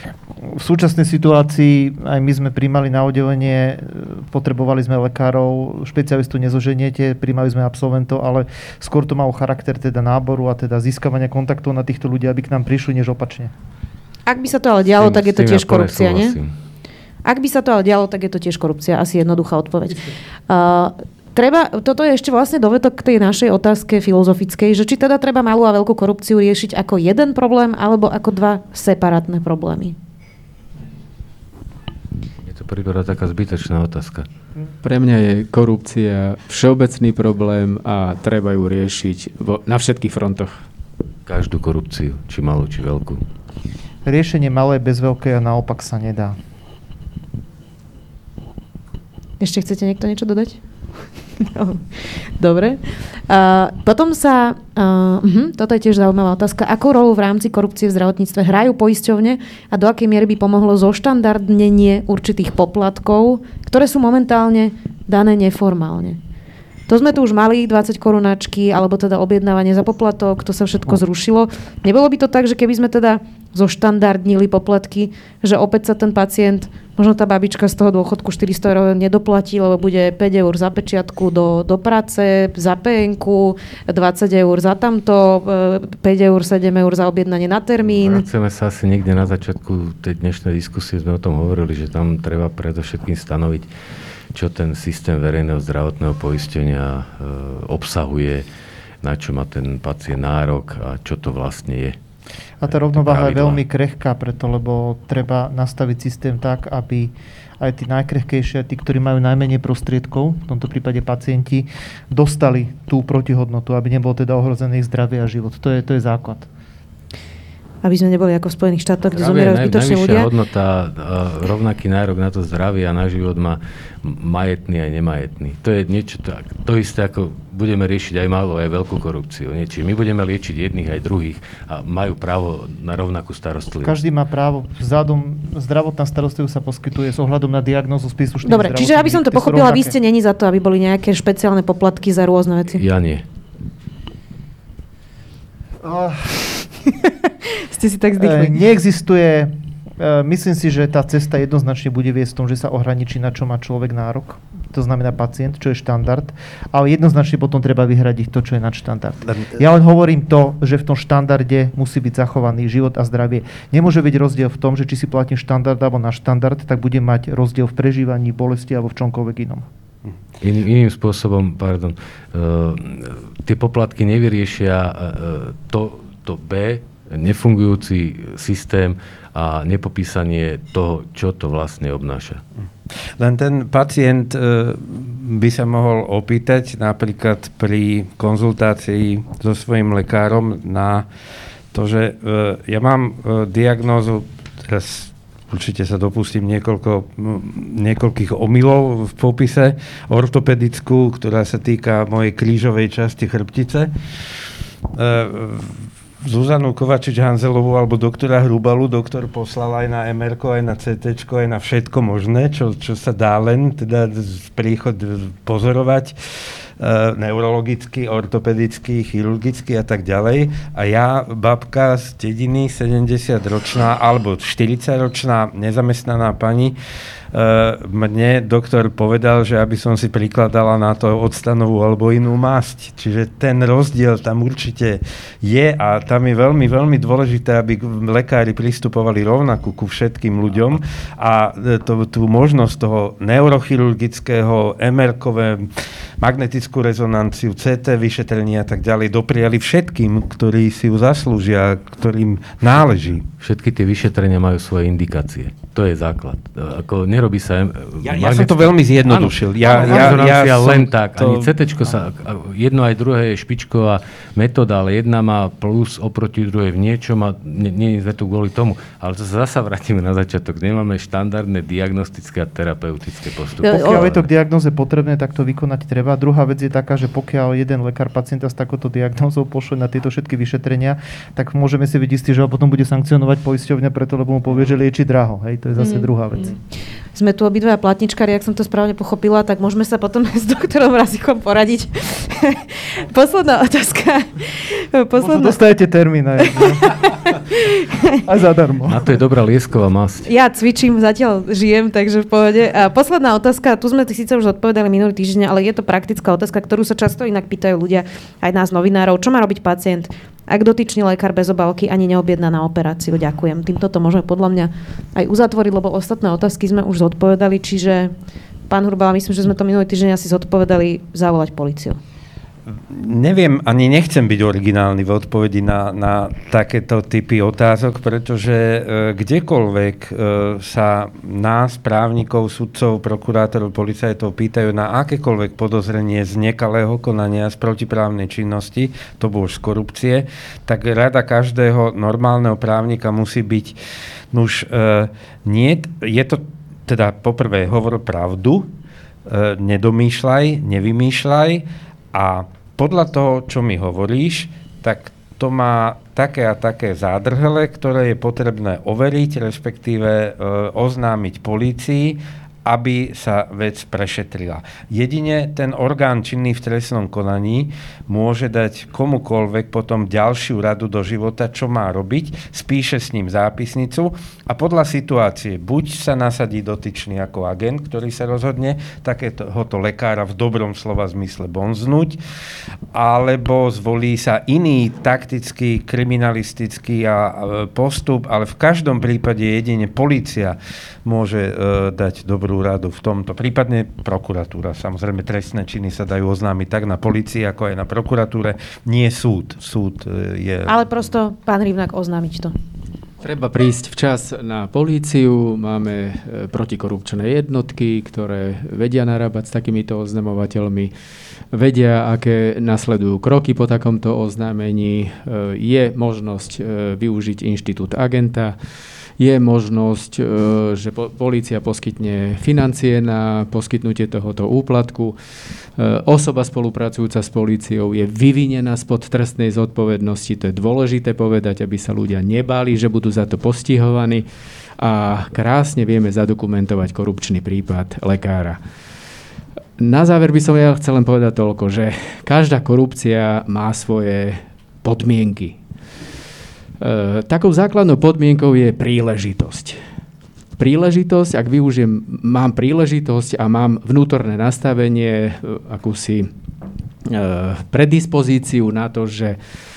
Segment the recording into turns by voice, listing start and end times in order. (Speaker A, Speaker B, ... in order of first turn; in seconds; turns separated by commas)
Speaker A: 0.4-13.5, Speaker B: 14.3-16.4, Speaker C: 15.0-16.5, Speaker B: 17.2-30.0, Speaker C: 32.4-34.3, Speaker D: 34.8-40.6, Speaker C: 41.3-43.2, Speaker A: 44.0-46.4, Speaker B: 49.4-50.6, Speaker B: 51.4-66.2, Speaker B: 66.9-88.2, Speaker C: 87.8-93.7, Speaker C: 94.3-98.5, Speaker C: 99.0-102.0, Speaker A: 102.6-116.5, Speaker C: 102.7-103.6, Speaker B: 117.8-120.3, Speaker C: 119.1-134.0, Speaker A: 133.8-139.9, Speaker B: 138.4-142.8, Speaker C: 142.7-143.2, Speaker A: 145.8-146.4, Speaker B: 147.6-148.6, Speaker A: 148.2-169.7, Speaker E: 159.3-159.6, Speaker C: 170.4-182.4, Speaker E: 183.2-191.1, Speaker E: 191.7-203.9, Speaker E: 205.0-216.2, Speaker E: 216.8-226.8, Speaker E: 227.3-245.7, Speaker E: 246.2-253.2, Speaker C: 253.4-274.3, Speaker E: 258.0-261.5, Speaker B: 273.6-274.1, Speaker A: 273.7-286.6, Speaker B: 285.8-286.1, Speaker B: 287.1-295.6, Speaker A: 295.2-296.9, Speaker B: 296.5-298.1, Speaker A: 298.2-299.1, Speaker C: 298.9-300.3, Speaker B: 300.3-318.1, Speaker B: 318.7-322.0, Speaker E: 322.8-343.8, Speaker E: 344.3-348.7, Speaker E: 349.3-382.2, Speaker E: 382.9-400.9, Speaker B: 400.7-402.5, Speaker D: 403.2-410.9, Speaker D: 411.5-418.6, Speaker D: 419.2-425.2, Speaker D: 425.8-434.2, Speaker D: 434.8-438.6, Speaker D: 439.8-445.6, Speaker D: 446.8-449.8, Speaker D: 450.6-456.3, Speaker D: 457.1-459.4